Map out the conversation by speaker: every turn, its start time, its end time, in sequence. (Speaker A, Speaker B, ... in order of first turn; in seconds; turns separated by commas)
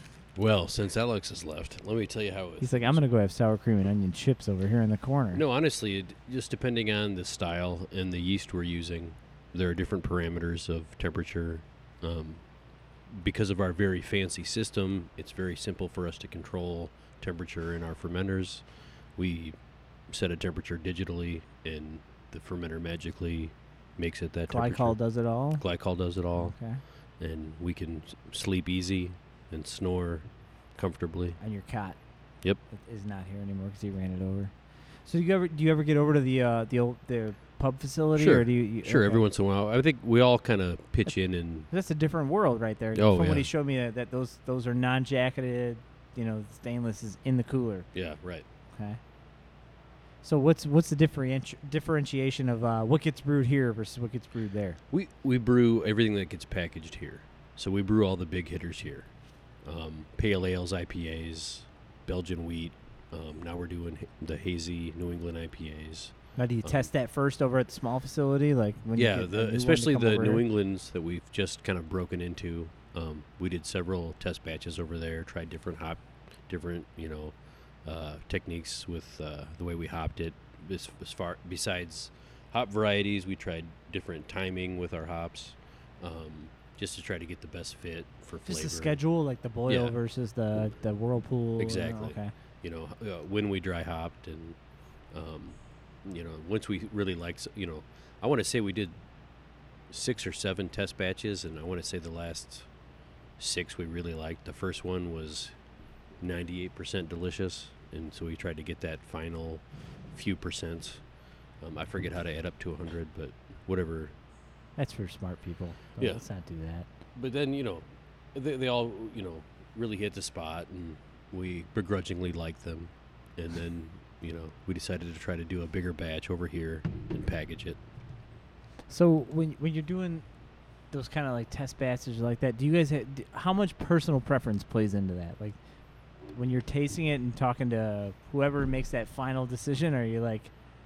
Speaker A: 0.3-3.0, Speaker B: 2.6-5.4, Speaker A: 5.3-26.6, Speaker B: 24.5-25.6, Speaker B: 26.3-26.8, Speaker A: 27.2-31.4, Speaker B: 31.4-32.0, Speaker B: 32.7-39.2, Speaker A: 38.1-41.7, Speaker B: 41.0-47.9, Speaker A: 42.9-43.5, Speaker A: 47.9-48.4, Speaker B: 48.7-49.0, Speaker B: 50.2-54.8, Speaker A: 54.9-66.9, Speaker B: 66.3-70.4, Speaker A: 69.0-89.0, Speaker B: 88.5-92.3, Speaker A: 89.7-90.0, Speaker A: 91.6-94.6, Speaker A: 95.1-99.0, Speaker A: 99.9-102.7, Speaker A: 103.4-105.5, Speaker A: 106.2-114.1, Speaker B: 114.8-116.9, Speaker A: 116.0-116.2, Speaker A: 117.1-127.8, Speaker B: 128.9-130.2, Speaker B: 130.9-135.6, Speaker B: 136.3-140.5